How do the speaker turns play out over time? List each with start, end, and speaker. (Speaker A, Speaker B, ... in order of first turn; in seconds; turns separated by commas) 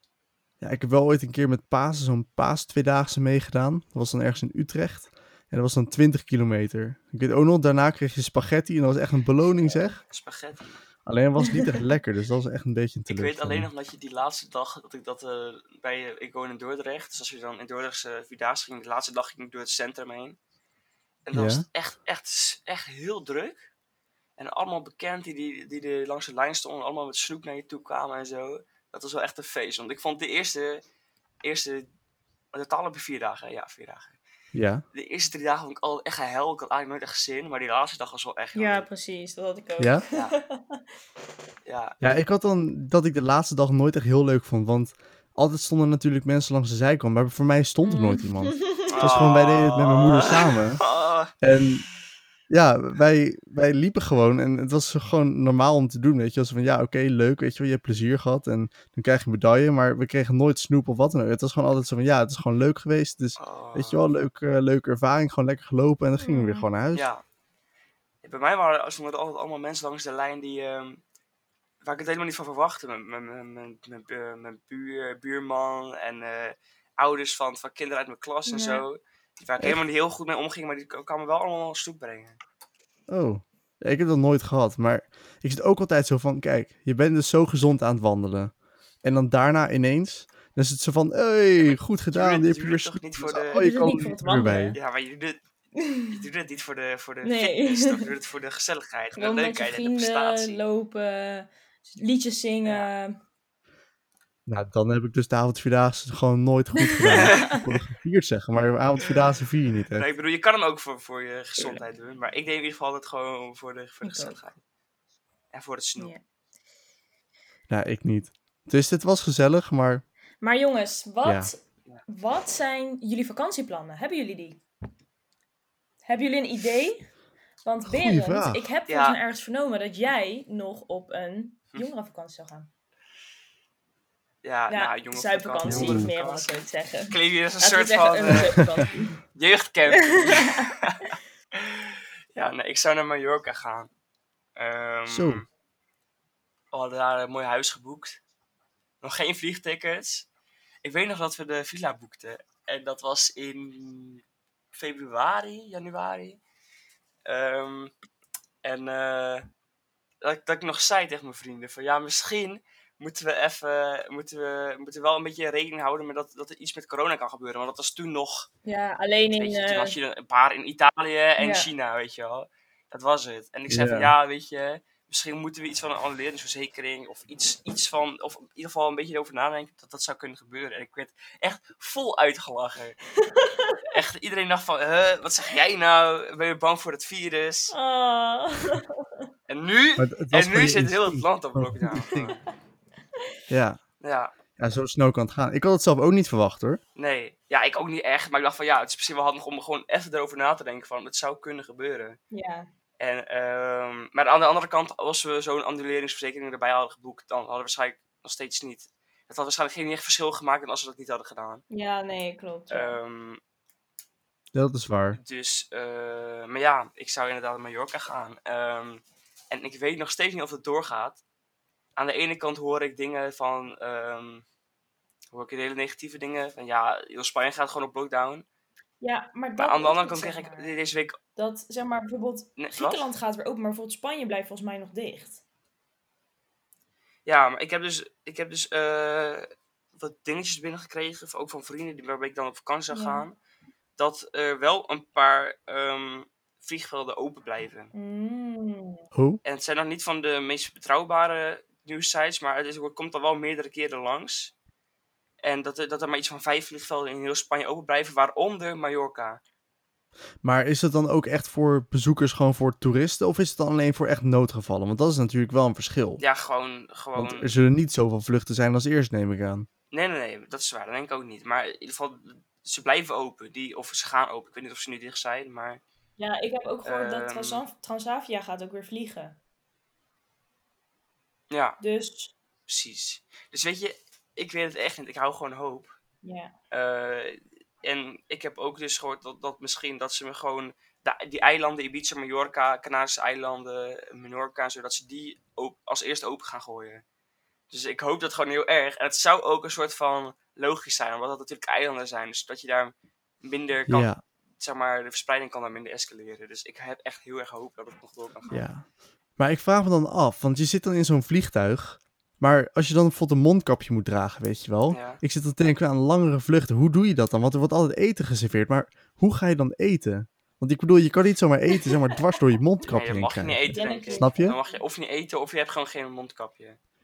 Speaker A: 0.6-10.0, Speaker B: 9.6-10.8, Speaker A: 11.1-13.7, Speaker B: 13.1-20.4, Speaker B: 21.2-23.7, Speaker A: 21.3-21.6, Speaker B: 24.4-30.8, Speaker B: 31.4-31.9, Speaker B: 32.5-34.2, Speaker A: 34.5-34.8, Speaker B: 34.9-38.9, Speaker C: 38.5-40.8, Speaker A: 39.8-40.0, Speaker B: 41.6-42.0, Speaker A: 42.0-50.8, Speaker C: 47.8-49.1, Speaker B: 48.9-51.3, Speaker A: 51.4-51.8, Speaker A: 52.5-67.0, Speaker B: 63.4-64.0, Speaker C: 66.1-66.7, Speaker B: 66.9-67.2, Speaker B: 68.2-71.0, Speaker B: 71.8-82.4, Speaker C: 78.5-78.8, Speaker A: 83.1-94.8, Speaker B: 92.1-93.6, Speaker C: 93.5-94.8, Speaker B: 94.7-95.4, Speaker C: 95.8-96.2, Speaker B: 96.1-100.6, Speaker C: 97.2-98.1, Speaker C: 99.1-103.2, Speaker B: 102.6-102.9, Speaker A: 104.5-110.0, Speaker C: 106.8-107.6, Speaker B: 107.1-107.6, Speaker B: 109.9-114.6, Speaker C: 114.0-114.4, Speaker B: 115.5-116.1, Speaker A: 117.7-120.0, Speaker C: 120.4-124.6, Speaker A: 121.2-121.5, Speaker C: 126.0-127.1, Speaker C: 127.6-132.7, Speaker A: 127.9-128.7, Speaker B: 128.9-129.2, Speaker B: 134.4-136.6, Speaker C: 134.7-139.2, Speaker A: 135.6-136.1, Speaker B: 137.1-138.7, Speaker A: 138.3-138.8, Speaker B: 139.3-143.9, Speaker C: 140.0-140.7, Speaker B: 144.6-145.4, Speaker A: 145.1-145.4, Speaker B: 146.7-148.2, Speaker B: 149.0-150.3, Speaker B: 150.8-156.4, Speaker B: 157.2-157.9, Speaker B: 158.6-159.5, Speaker B: 160.2-168.5, Speaker C: 168.7-169.9, Speaker B: 169.3-183.0, Speaker C: 171.4-171.7, Speaker A: 173.7-174.1, Speaker C: 183.2-183.8, Speaker B: 183.8-187.7, Speaker C: 187.7-189.1, Speaker B: 189.5-192.4, Speaker A: 190.0-192.3, Speaker C: 192.1-192.4, Speaker A: 193.5-193.8, Speaker B: 194.0-194.3, Speaker A: 194.6-196.8, Speaker B: 196.9-202.2, Speaker C: 202.3-202.7, Speaker B: 203.0-211.6, Speaker C: 211.7-213.0, Speaker B: 212.7-213.4, Speaker A: 214.5-215.2, Speaker B: 215.1-221.2, Speaker B: 222.0-224.4, Speaker B: 225.3-228.4, Speaker C: 229.0-230.8, Speaker B: 229.6-231.2, Speaker C: 231.3-235.4, Speaker B: 232.6-233.1, Speaker B: 237.2-243.4, Speaker C: 242.9-243.2, Speaker B: 244.0-247.9, Speaker C: 247.9-249.0, Speaker A: 249.1-249.4, Speaker B: 249.4-254.5, Speaker B: 255.4-259.4, Speaker A: 260.4-266.2, Speaker B: 266.2-267.5, Speaker A: 267.1-269.7, Speaker B: 269.9-275.8, Speaker C: 276.2-279.4, Speaker B: 276.8-277.6, Speaker B: 281.5-281.8, Speaker C: 281.8-282.3, Speaker B: 282.7-285.9, Speaker C: 286.2-286.5, Speaker B: 286.7-297.0, Speaker B: 297.7-308.6, Speaker A: 303.9-304.2, Speaker A: 308.5-308.8, Speaker A: 309.4-324.6, Speaker B: 314.9-315.2, Speaker B: 322.9-326.8, Speaker C: 323.7-324.8